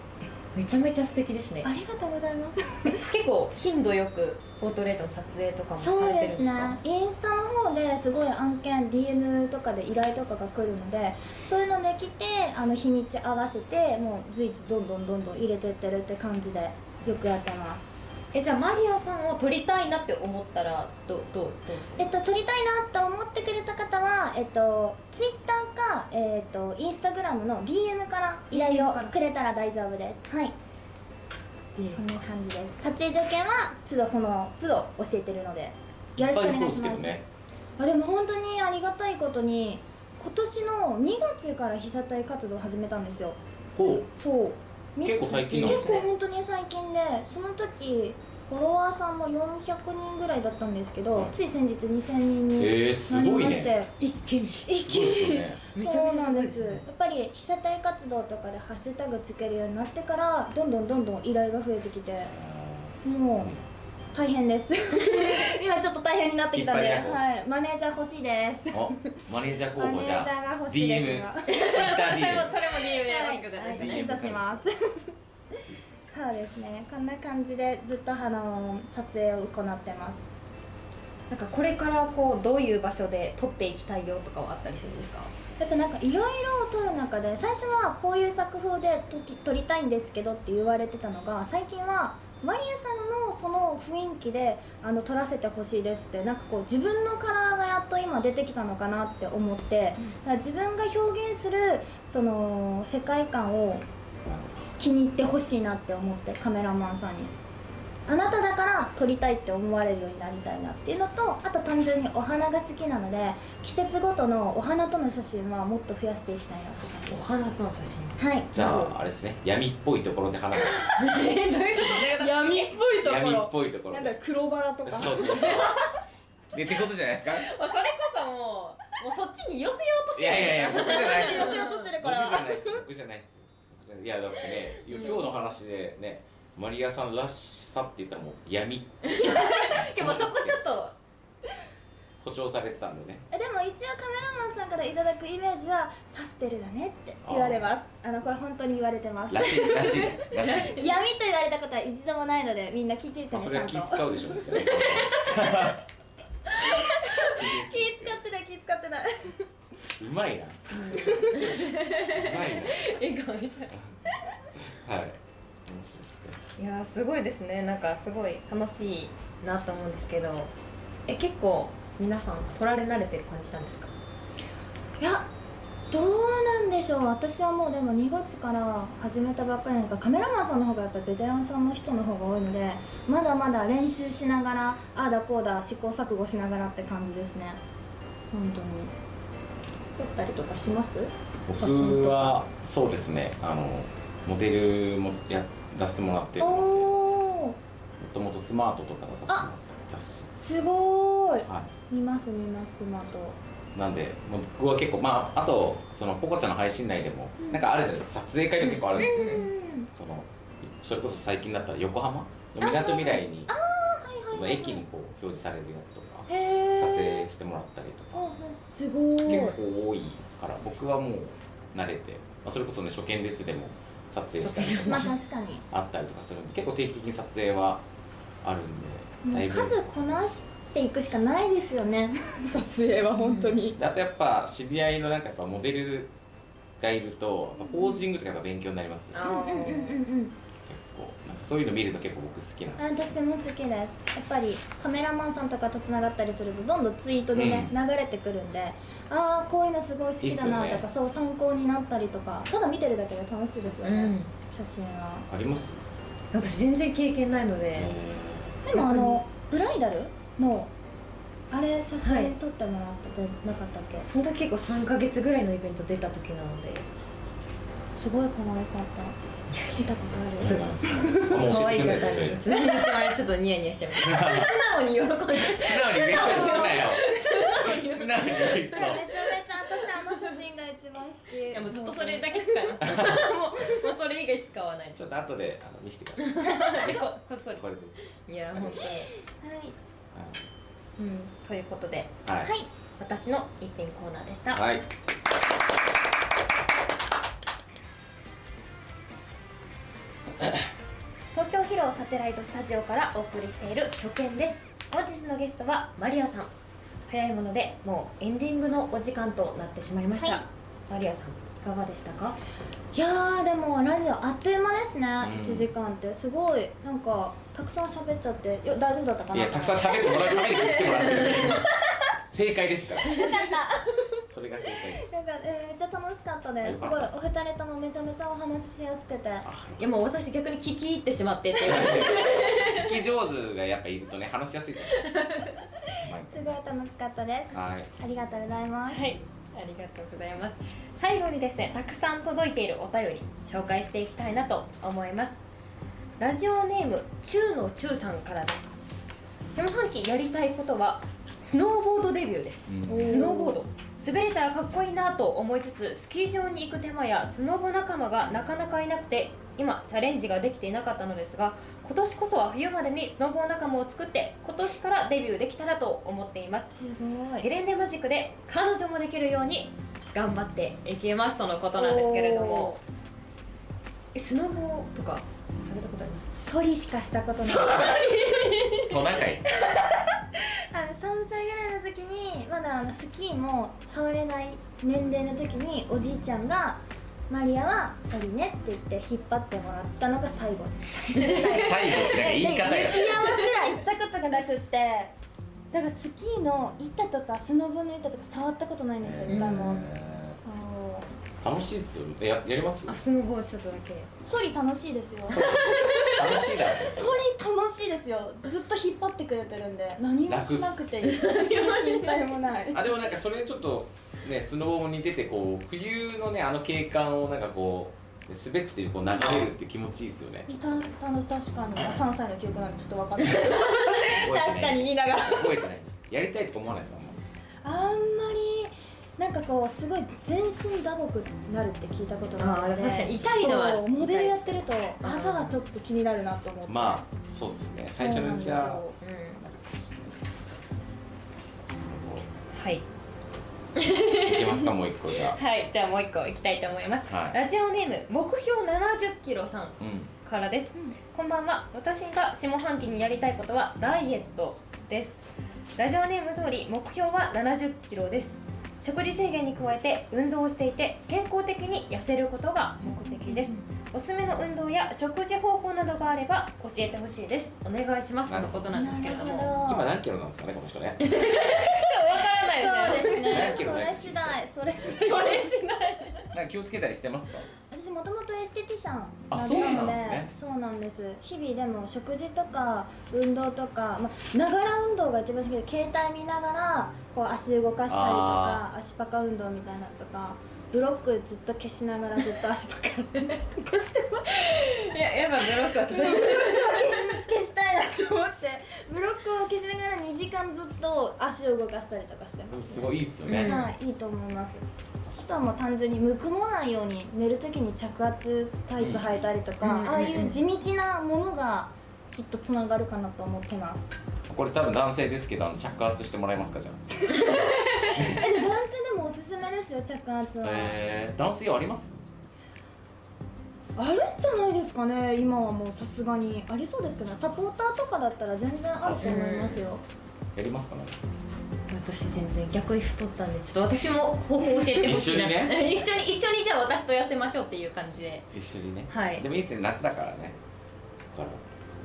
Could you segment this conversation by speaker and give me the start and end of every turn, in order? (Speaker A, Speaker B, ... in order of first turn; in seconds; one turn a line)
Speaker A: 0.2-1.7
Speaker B: 1.6-3.0
Speaker A: 3.0-6.8
Speaker B: 5.8-17.9
Speaker A: 18.3-22.1
Speaker B: 22.0-30.6
Speaker A: 28.5-29.2
Speaker A: 31.8-32.2
Speaker B: 31.9-37.2
Speaker C: 36.2-37.2
Speaker B: 37.8-43.4
Speaker C: 43.8-44.1
Speaker B: 44.1-53.9
Speaker C: 45.0-46.1
Speaker A: 45.5-46.0
Speaker C: 52.6-53.7
Speaker A: 54.0-54.7
Speaker B: 54.7-62.3
Speaker C: 54.8-55.6
Speaker A: 55.7-56.8
Speaker C: 62.2-63.6
Speaker B: 63.0-63.5
Speaker B: 64.1-69.1
Speaker C: 66.5-67.2
Speaker C: 68.7-72.6
Speaker B: 69.8-71.5
Speaker A: 71.5-74.3
Speaker B: 72.9-75.1
Speaker C: 73.7-74.7
Speaker C: 75.7-76.0
Speaker B: 76.1-80.2
Speaker A: 81.3-85.3
Speaker B: 85.6-103.8
Speaker C: 104.3-104.6
Speaker B: 104.8-107.3
Speaker B: 108.1-117.2
Speaker A: 117.1-118.9
Speaker B: 118.2-118.5
Speaker C: 118.5-121.0
Speaker A: 120.8-122.3
Speaker B: 122.2-125.7
Speaker C: 123.0-124.2
Speaker C: 124.8-125.7
Speaker A: 125.4-125.6
Speaker C: 126.5-127.5
Speaker A: 127.4-131.9
Speaker C: 130.2-140.6
Speaker B: 130.7-132.8
Speaker A: 134.9-135.2
Speaker A: 139.0-140.9
Speaker C: 142.2-143.2
Speaker B: 143.3-150.1
Speaker C: 147.2-147.7
Speaker C: 149.3-150.9
Speaker A: 149.6-150.8
Speaker B: 150.7-154.6
Speaker C: 153.3-155.8
Speaker A: 154.7-155.5
Speaker A: 156.6-157.2
Speaker B: 157.2-159.4
Speaker C: 157.3-158.2
Speaker C: 159.9-160.7
Speaker A: 160.7-163.8
Speaker B: 161.0-161.3
Speaker C: 161.9-163.0
Speaker C: 164.6-166.4
Speaker A: 166.6-170.5
Speaker A: 171.1-173.9
Speaker B: 175.0-175.3
Speaker B: 175.9-187.6
Speaker B: 188.3-188.9
Speaker B: 190.0-192.3
Speaker C: 191.5-197.0
Speaker B: 196.4-197.6
Speaker C: 198.0-200.3
Speaker B: 200.4-203.4
Speaker C: 201.4-201.7
Speaker C: 203.7-213.5
Speaker B: 207.4-207.7
Speaker A: 208.6-209.5
Speaker B: 208.9-209.9
Speaker B: 212.6-214.8
Speaker C: 214.3-218.2
Speaker B: 216.3-217.2
Speaker B: 218.1-219.6
Speaker C: 219.2-225.1
Speaker A: 219.3-219.6
Speaker A: 224.4-225.1
Speaker B: 224.9-225.7
Speaker C: 225.7-227.8
Speaker C: 228.4-229.8
Speaker B: 229.2-233.8
Speaker A: 233.2-233.6
Speaker C: 233.8-236.1
Speaker C: 236.8-239.9
Speaker A: 239.1-240.0
Speaker B: 239.2-240.4
Speaker C: 240.7-243.2
Speaker B: 242.8-255.3
Speaker C: 247.3-247.7
Speaker C: 250.2-250.9
Speaker A: 253.8-254.3
Speaker C: 255.3-255.8
Speaker A: 256.3-257.9
Speaker C: 257.8-258.6
Speaker B: 258.6-260.7
Speaker A: 258.7-259.2
Speaker B: 261.5-264.1
Speaker A: 262.0-262.3
Speaker A: 264.1-266.9
Speaker B: 267.9-269.2
Speaker A: 269.5-269.9
Speaker B: 269.8-271.4
Speaker C: 270.4-272.4
Speaker A: 270.4-270.7
Speaker A: 271.3-279.0
Speaker C: 274.0-274.5
Speaker C: 275.4-279.1
Speaker B: 278.7-283.7
Speaker A: 279.9-280.4
Speaker A: 281.5-285.0
Speaker C: 282.8-283.3
Speaker C: 284.9-288.9
Speaker A: 286.2-287.6
Speaker A: 288.2-289.1
Speaker B: 289.4-289.8
Speaker C: 290.1-290.4
Speaker A: 291.0-292.2
Speaker C: 292.2-292.6
Speaker A: 293.0-294.6
Speaker C: 294.5-294.9
Speaker A: 301.3-306.5
Speaker A: 307.1-312.4
Speaker B: 312.9-321.7
Speaker C: 315.2-315.7
Speaker C: 319.3-321.7
Speaker A: 320.7-321.5
Speaker C: 322.3-323.2
Speaker B: 323.1-324.2
Speaker C: 324.3-325.1
Speaker B: 325.1-329.5
Speaker C: 326.6-327.2
Speaker C: 329.4-329.9
Speaker A: 329.8-332.9
Speaker C: 331.6-335.5
Speaker A: 335.1-335.5
Speaker C: 336.0-336.6
Speaker B: 336.3-339.2
Speaker C: 337.5-337.9
Speaker A: 338.9-345.4
Speaker A: 346.2-348.8
Speaker A: 349.5-366.7
Speaker C: 352.7-353.3
Speaker B: 352.9-353.6
Speaker B: 366.7-367.5
Speaker A: 367.4-372.8
Speaker B: 371.7-372.8
Speaker A: 374.1-376.3
Speaker B: 376.4-378.0
Speaker A: 377.4-378.9
Speaker C: 378.9-379.4
Speaker B: 380.4-395.1
Speaker C: 391.5-393.4
Speaker B: 395.7-399.9
Speaker C: 399.0-400.4
Speaker A: 399.3-399.8
Speaker B: 400.4-401.1
Speaker C: 401.4-403.0
Speaker A: 402.9-404.1
Speaker B: 404.2-412.9
Speaker C: 405.3-407.2
Speaker C: 410.3-411.1
Speaker A: 411.2-412.1
Speaker C: 412.7-420.5
Speaker B: 419.1-419.5
Speaker B: 420.5-425.6
Speaker C: 421.8-422.0
Speaker C: 424.1-427.2
Speaker B: 427.6-437.1
Speaker A: 432.4-435.5
Speaker C: 436.7-440.3
Speaker B: 438.0-438.9
Speaker A: 439.0-439.4
Speaker C: 441.6-442.4
Speaker A: 442.5-442.9
Speaker A: 443.8-444.7
Speaker C: 444.2-445.4
Speaker A: 445.3-455.2
Speaker C: 447.1-447.4
Speaker C: 449.8-450.1
Speaker A: 455.8-469.6
Speaker B: 462.9-463.6
Speaker C: 468.3-471.2
Speaker B: 468.7-469.9
Speaker A: 471.0-473.6
Speaker B: 472.5-476.1
Speaker C: 473.1-474.4
Speaker A: 475.0-475.7
Speaker C: 476.3-477.5
Speaker B: 477.7-494.4
Speaker C: 479.3-480.3
Speaker C: 487.9-488.6
Speaker A: 494.3-497.1
Speaker B: 495.9-513.9
Speaker C: 502.5-503.7
Speaker A: 503.3-503.7
Speaker C: 508.8-509.2
Speaker A: 509.6-510.4
Speaker C: 514.3-516.8
Speaker A: 517.1-518.0
Speaker C: 517.9-518.3
Speaker B: 518.1-520.8
Speaker C: 520.4-522.0
Speaker B: 523.8-529.8
Speaker C: 528.8-529.2
Speaker A: 529.0-529.6
Speaker C: 530.4-531.0
Speaker A: 531.7-538.3
Speaker C: 534.7-535.9
Speaker C: 538.3-540.4
Speaker A: 538.9-539.3
Speaker C: 541.1-541.4